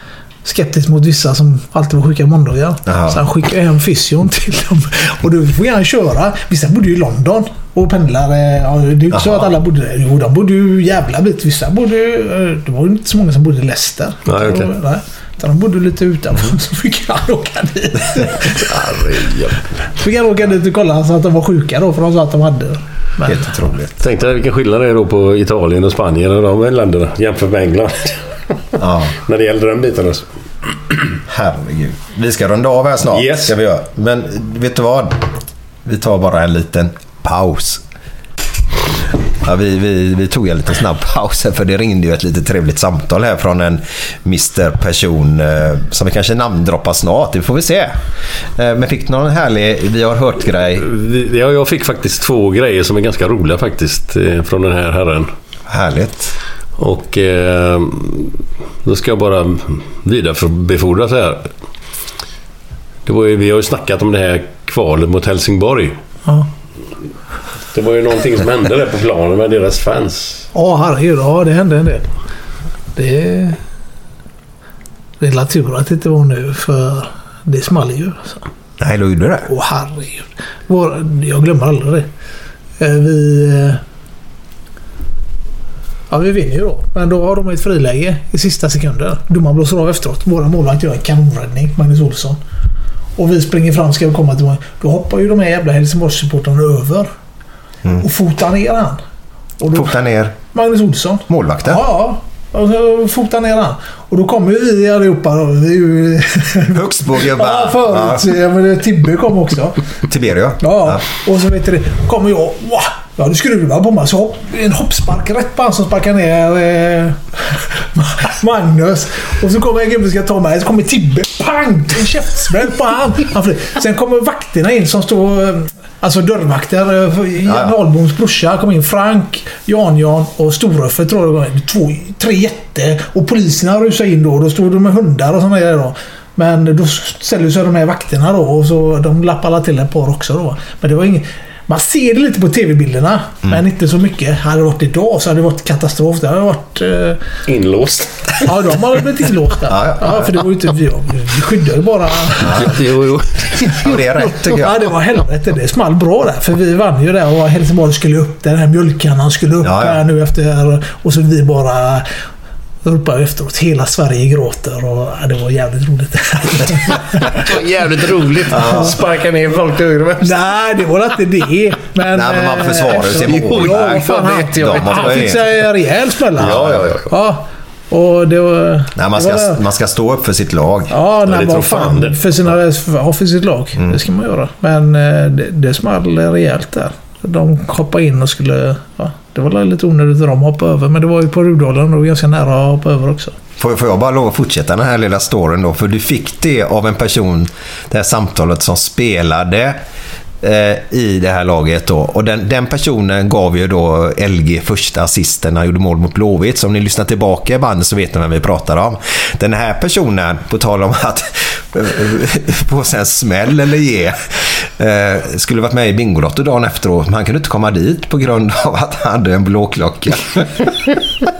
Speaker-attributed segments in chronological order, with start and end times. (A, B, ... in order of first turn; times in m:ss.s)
0:00.4-0:18.7 A
0:02.9-0:03.2 B
0:09.1-0:09.4 B
0:14.3-0:14.7 C
0:18.6-0:19.7 C
0:19.9-0:23.5 A
0:23.2-0:24.0 B
0:24.0-0:28.2 C
0:28.8-0:29.2 B
0:29.2-0:30.3 C
0:31.3-0:35.3 B
0:33.1-0:33.5 C
0:35.8-0:37.8 B
0:39.4-0:48.0 B
0:48.6-0:50.9 B
0:50.7-0:55.3 C
0:55.7-0:56.4 B
0:56.8-1:01.5 C
1:03.1-1:06.0 C
1:07.7-1:10.5 C
1:10.5-1:12.1 A
1:13.0-1:13.6 A
1:15.2-1:18.4 A
1:18.8-1:19.5 B
1:19.5-1:22.1 A
1:22.8-1:23.8 A
1:26.1-1:32.4 A
1:33.2-1:37.1 A
1:38.0-1:39.0 A
1:39.6-1:39.9 A
1:39.7-1:40.4 B
1:40.5-1:49.8 A
1:41.3-1:41.8 B
1:46.7-1:48.3 B
1:50.1-1:51.0 B
1:50.6-2:27.2 A
2:07.4-2:07.7 B
2:27.5-2:28.5 C
2:28.4-2:32.7 A
2:29.7-2:30.3 B
2:32.4-2:34.0 C
2:33.7-2:34.9 B
2:34.2-2:42.1 A
2:39.6-2:40.0 B
2:42.8-2:47.4 A
2:47.4-2:50.4 C
2:48.5-2:48.9 B
2:48.7-2:48.9 A
2:50.2-2:59.6 A
2:52.1-2:55.5 B
2:53.3-2:55.3 C
2:56.4-2:57.1 C
2:56.4-2:56.9 B
2:59.0-3:01.0 B
3:00.9-3:13.4 A
3:01.3-3:02.2 C
3:13.6-3:19.8 B
3:20.4-3:41.0 B